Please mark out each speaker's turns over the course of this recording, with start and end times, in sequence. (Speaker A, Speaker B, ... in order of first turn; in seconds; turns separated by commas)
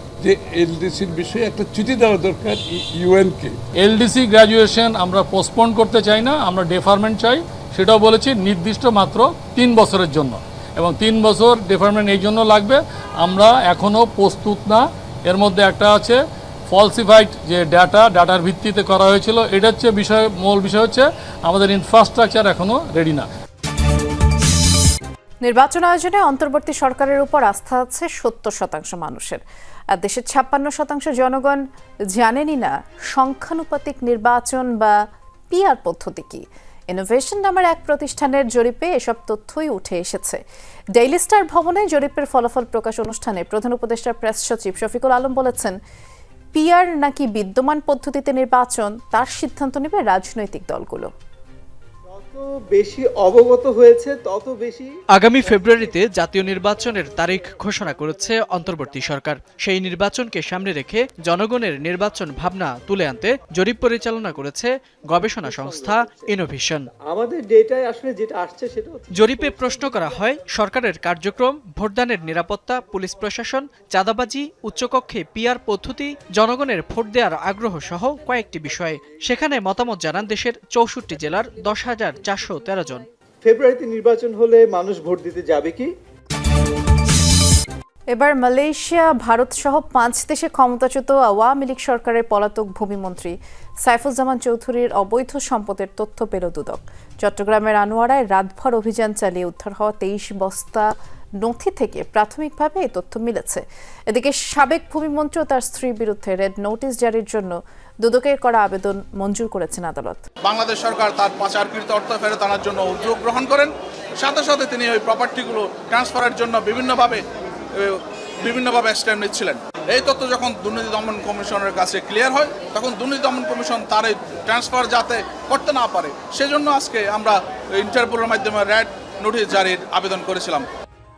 Speaker A: 0.2-3.5, Speaker B: 3.8-16.2, Speaker B: 16.7-23.2, Speaker C: 25.4-29.4, Speaker C: 29.9-40.4, Speaker C: 41.0-45.8, Speaker C: 46.5-51.1, Speaker D: 52.1-56.0, Speaker E: 55.1-66.9, Speaker D: 65.4-66.3, Speaker D: 67.0-69.5, Speaker E: 69.1-83.0, Speaker D: 83.4-85.9, Speaker C: 88.1-100.9, Speaker C: 101.4-110.2, Speaker F: 110.4-117.2, Speaker F: 117.8-130.6